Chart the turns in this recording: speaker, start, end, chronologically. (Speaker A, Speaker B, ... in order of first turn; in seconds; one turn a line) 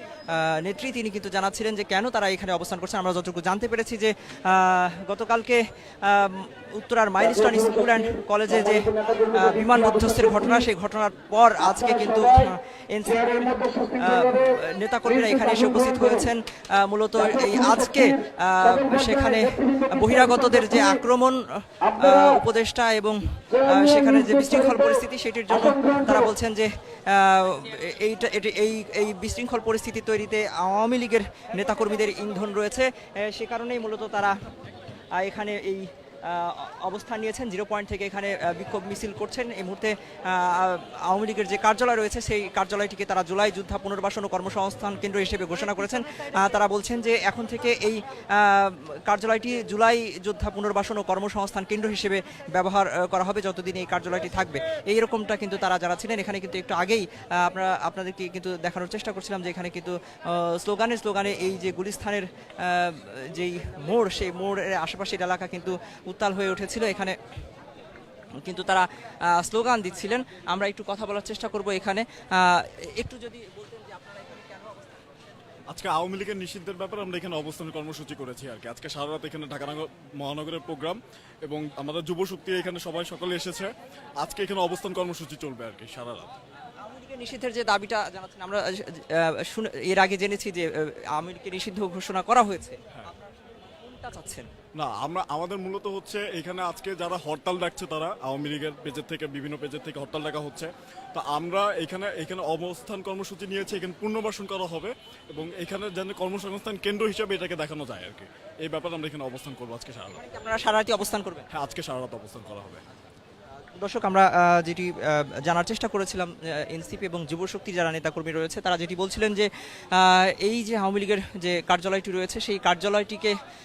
Speaker A: 0.3-34.3
Speaker A: 35.2-67.2
Speaker A: 68.4-75.0
Speaker B: 75.7-86.3
Speaker A: 86.8-94.5
Speaker B: 94.8-110.2
Speaker A: 110.1-111.5
Speaker B: 111.5-112.8
Speaker A: 113.8-123.4